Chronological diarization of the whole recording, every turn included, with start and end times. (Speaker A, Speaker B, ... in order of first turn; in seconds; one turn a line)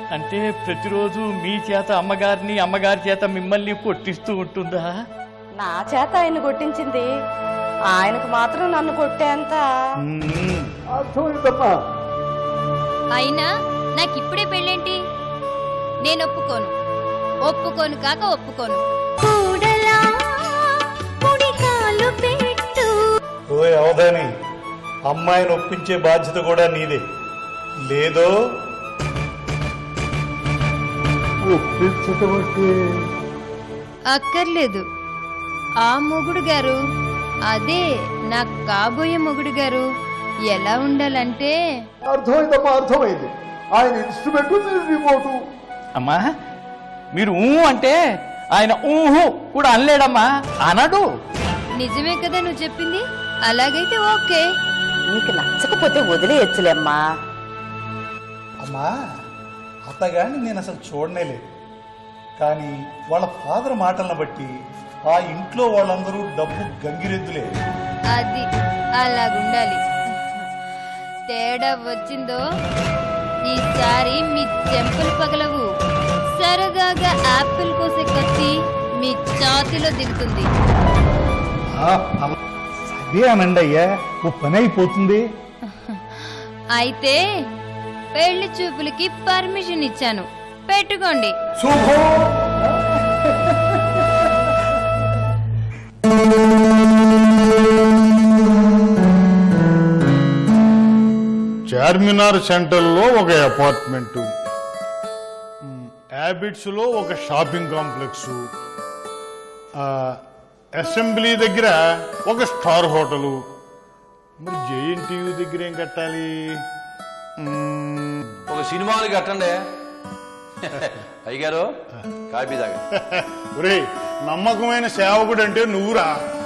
Speaker A: 0.1-5.0
Speaker B: 5.6-7.1
Speaker B: 7.9-9.6
Speaker C: 10.1-10.7
Speaker D: 10.9-11.8
Speaker E: 13.2-15.0
Speaker E: 16.0-16.7
Speaker E: 17.5-18.8
Speaker F: 19.2-23.1
Speaker C: 23.5-24.3
Speaker C: 25.1-27.0
Speaker C: 27.9-28.3
Speaker D: 31.5-32.7
Speaker E: 34.1-34.8
Speaker E: 35.8-36.8
Speaker E: 37.5-39.9
Speaker E: 40.5-41.5
Speaker D: 42.0-45.4
Speaker A: 46.0-46.2
Speaker A: 47.2-48.0
Speaker A: 48.6-51.0
Speaker E: 51.8-54.5
Speaker B: 55.1-57.0
Speaker C: 58.6-58.9
Speaker C: 59.9-61.4
Speaker C: 62.4-64.5
Speaker C: 65.1-67.5
Speaker E: 68.1-68.5
Speaker E: 69.0-70.5
Speaker E: 71.3-72.4
Speaker E: 73.5-75.7
Speaker E: 76.3-80.5
Speaker C: 81.7-82.3
Speaker C: 82.9-85.2
Speaker E: 85.7-87.2
Speaker E: 88.2-91.4
Speaker D: 91.7-92.2
Speaker G: 101.7-104.3
Speaker G: 105.6-108.4
Speaker G: 109.8-110.2
Speaker G: 110.8-113.4
Speaker G: 114.4-116.6
Speaker G: 117.4-118.4
Speaker H: 118.5-119.6
Speaker H: 120.6-121.7
Speaker H: 122.3-122.8
Speaker G: 123.0-126.2